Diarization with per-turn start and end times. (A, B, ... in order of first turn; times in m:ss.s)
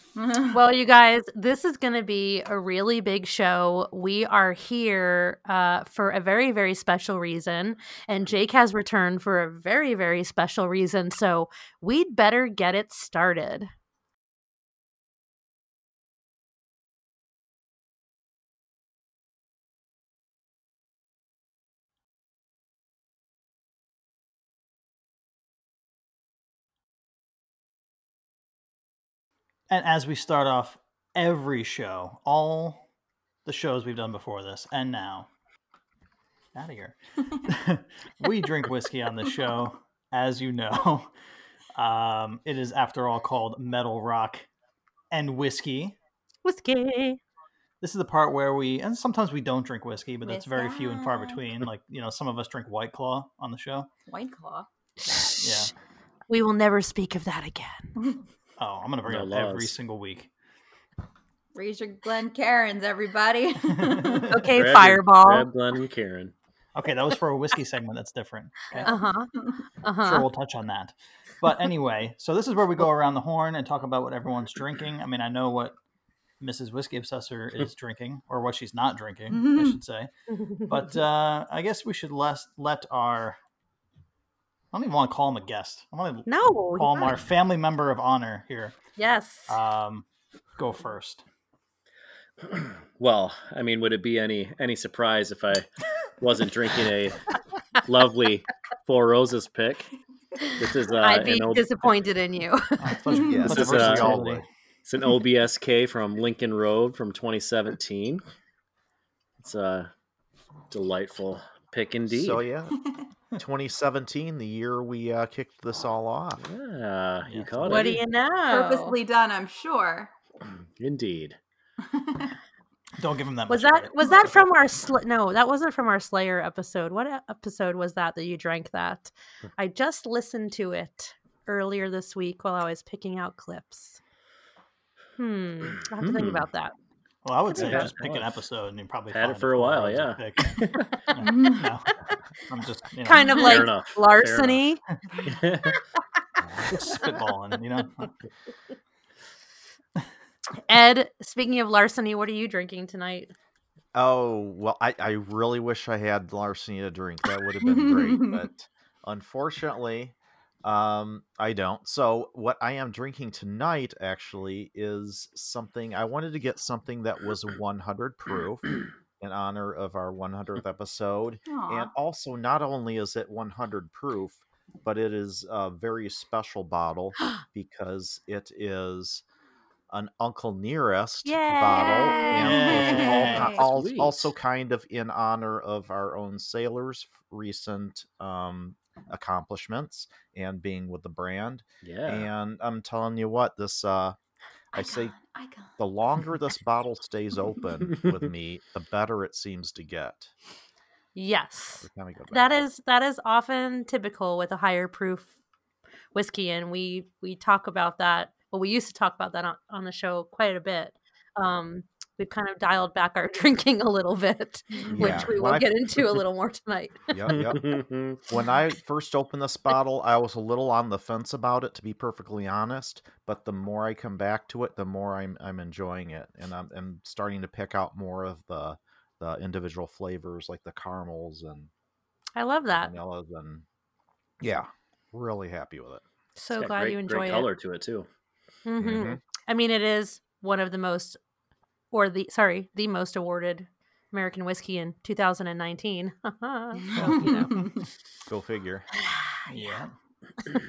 0:00.2-0:00.6 A
0:00.5-0:13.7 B
0:29.7-0:32.8 C
0:33.4-0:35.3 C
0:36.5-0:41.1 C
0:41.7-0:44.4 C
0:45.1-0:46.0 C
0:46.4-0:47.2 B
0:47.8-0:53.9 C
0:50.2-0:51.4 A
0:54.1-0:54.7 A
0:55.0-0:55.7 B
0:55.4-0:55.7 C
0:56.3-0:57.9 B
0:58.6-1:00.3 C
0:59.1-0:59.7 D
1:01.5-1:04.3 A
1:03.7-1:04.4 C
1:04.3-1:05.5 B
1:04.5-1:06.3 D
1:06.7-1:09.0 C
1:08.8-1:10.2 B
1:10.0-1:15.8 C
1:16.4-1:20.1 C
1:19.3-1:19.8 A
1:20.3-1:20.8 B
1:20.7-1:23.4 C
1:24.7-1:28.8 C
1:26.3-1:27.1 B
1:29.0-1:29.6 B
1:29.5-1:30.0 C
1:30.6-1:31.2 C
1:32.5-1:35.7 D
1:36.2-1:37.2 D
1:37.8-1:39.9 D
1:40.6-1:41.7 D
1:41.0-1:42.9 B
1:42.8-1:44.5 C
1:43.1-1:43.5 A
1:43.2-1:44.4 E
1:43.5-1:44.2 D
1:44.8-1:48.2 D
1:49.4-1:49.9 D
1:50.7-1:52.4 D
1:52.0-1:52.8 E
1:53.4-1:56.4 E
1:56.4-1:58.0 D
1:57.2-1:58.0 C
1:57.6-1:59.0 B
1:58.5-2:00.1 A
2:00.8-2:01.4 D
2:01.8-2:02.3 A
2:03.0-2:04.4 C
2:03.5-2:14.0 B
2:15.2-2:16.7 B
2:15.9-2:16.4 D
2:17.2-2:20.6 C
2:17.5-2:17.9 B
2:17.5-2:18.4 D
2:19.1-2:20.9 D
2:21.1-2:23.6 C
2:21.2-2:21.7 A
2:23.0-2:24.8 B
2:23.3-2:24.6 D
2:25.3-2:25.8 D
2:26.4-2:26.8 E
2:26.7-2:28.1 C
2:30.7-2:33.3 B
2:33.9-2:59.2 E
2:37.6-2:38.4 A
2:51.5-2:51.9 A
2:59.9-3:14.2 E
3:01.2-3:02.9 B
3:01.7-3:03.6 A
3:02.3-3:03.6 C
3:03.2-3:04.3 D
3:11.8-3:12.3 D
3:14.7-3:15.8 A
3:14.7-3:15.1 E
3:15.8-3:20.3 E
3:21.1-3:25.3 B
3:21.7-3:22.4 E
3:26.1-3:37.0 B
3:34.9-3:35.8 E
3:37.1-3:51.7 E
3:37.3-3:38.2 D
3:52.4-3:52.9 B
3:52.7-3:53.6 E
3:54.4-3:56.0 E
3:56.4-3:57.5 B
3:56.5-3:58.1 D
3:58.6-4:01.2 B
3:58.8-3:59.2 E
4:01.9-4:07.5 B
4:06.9-4:07.7 C
4:07.1-4:07.6 A
4:08.3-4:08.9 E
4:09.5-4:09.9 C